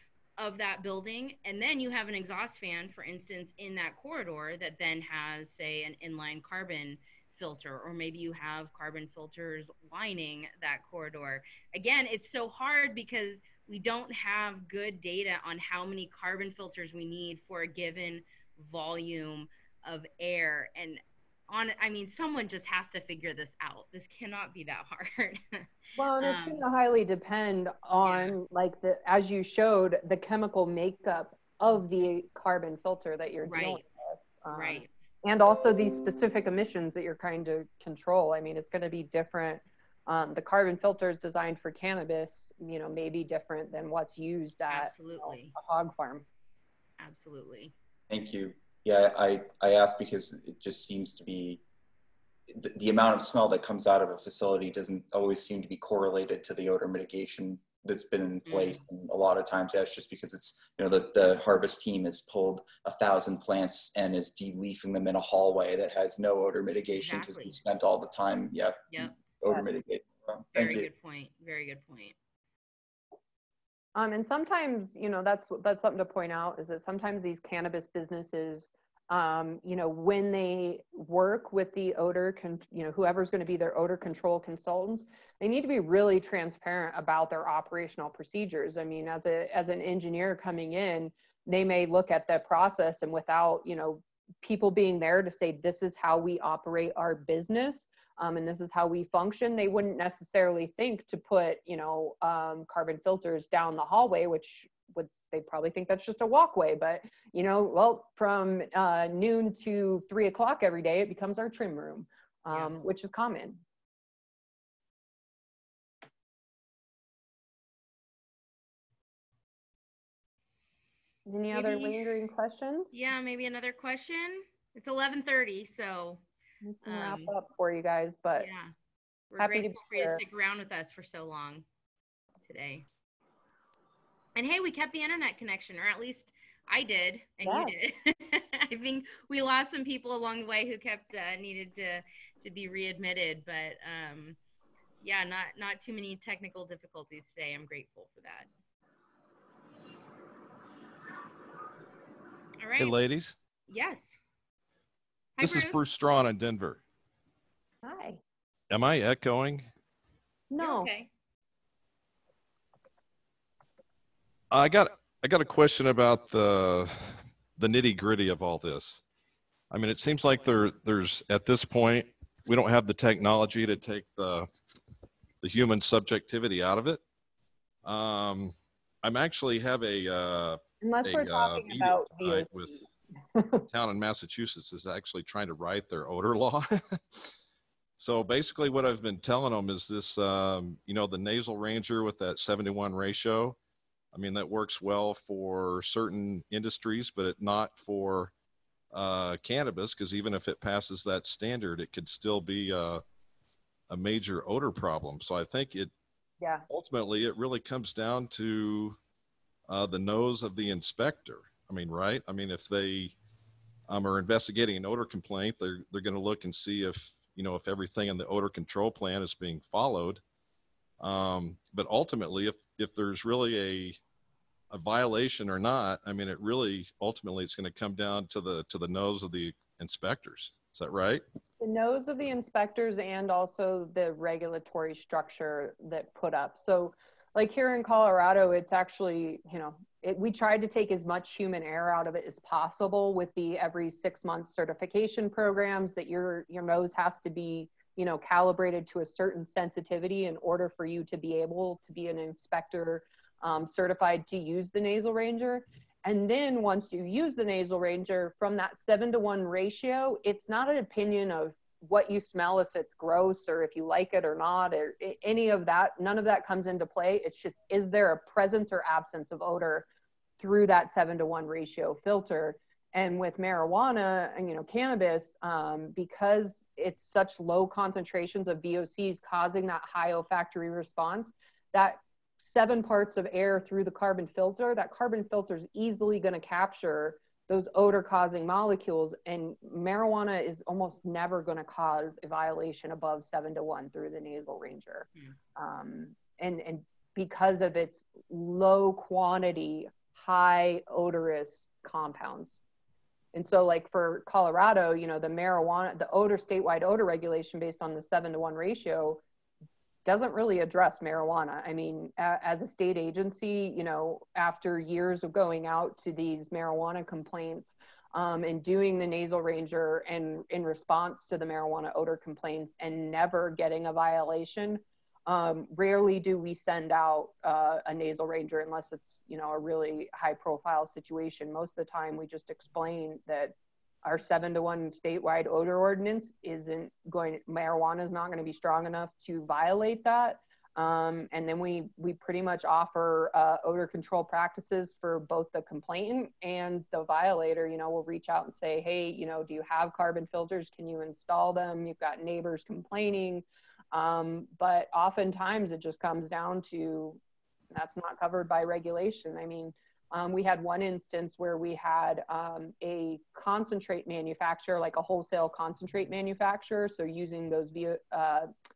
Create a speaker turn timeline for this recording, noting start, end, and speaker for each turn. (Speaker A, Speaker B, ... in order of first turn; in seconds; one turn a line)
Speaker A: 0.4-25.6
Speaker B: 26.0-46.3
Speaker A: 26.2-26.6
Speaker A: 28.0-28.4
Speaker A: 33.5-33.8
Speaker A: 34.5-34.9
Speaker A: 44.7-45.5
Speaker A: 47.0-47.7
Speaker C: 48.1-51.6
Speaker C: 52.5-70.9
Speaker A: 58.5-58.8
Speaker A: 67.0-67.6
Speaker A: 68.9-69.2
Speaker A: 70.5-72.2
Speaker B: 74.0-113.6
Speaker B: 121.3-123.0
Speaker A: 121.5-122.0
Speaker A: 122.9-126.2
Speaker B: 126.7-128.5
Speaker A: 126.8-127.3
Speaker A: 128.4-128.7
Speaker A: 129.3-131.7
Speaker B: 129.4-130.2
Speaker A: 132.4-132.9
Speaker A: 134.3-144.4
Speaker B: 137.4-137.7
Speaker A: 145.0-148.5
Speaker A: 152.6-153.0
Speaker D: 152.8-153.4
Speaker A: 153.7-154.2
Speaker A: 155.4-155.8
Speaker D: 155.4-156.8
Speaker B: 157.8-158.2
Speaker D: 158.7-159.7
Speaker B: 160.5-160.9
Speaker A: 160.6-161.1
Speaker D: 164.5-169.0
Speaker D: 169.7-174.5
Speaker D: 175.4-177.0
Speaker D: 177.8-182.8
Speaker B: 180.8-183.7
Speaker D: 183.7-187.3
Speaker D: 188.0-193.6
Speaker D: 194.1-198.3
Speaker D: 198.9-203.0
Speaker D: 203.9-205.9
Speaker D: 206.7-209.0
Speaker D: 209.7-213.2
Speaker D: 213.9-220.2
Speaker D: 221.0-224.0
Speaker D: 224.7-231.2
Speaker B: 231.6-269.9
Speaker B: 270.4-302.6
Speaker B: 303.3-309.2
Speaker B: 310.1-357.2
Speaker B: 357.7-368.5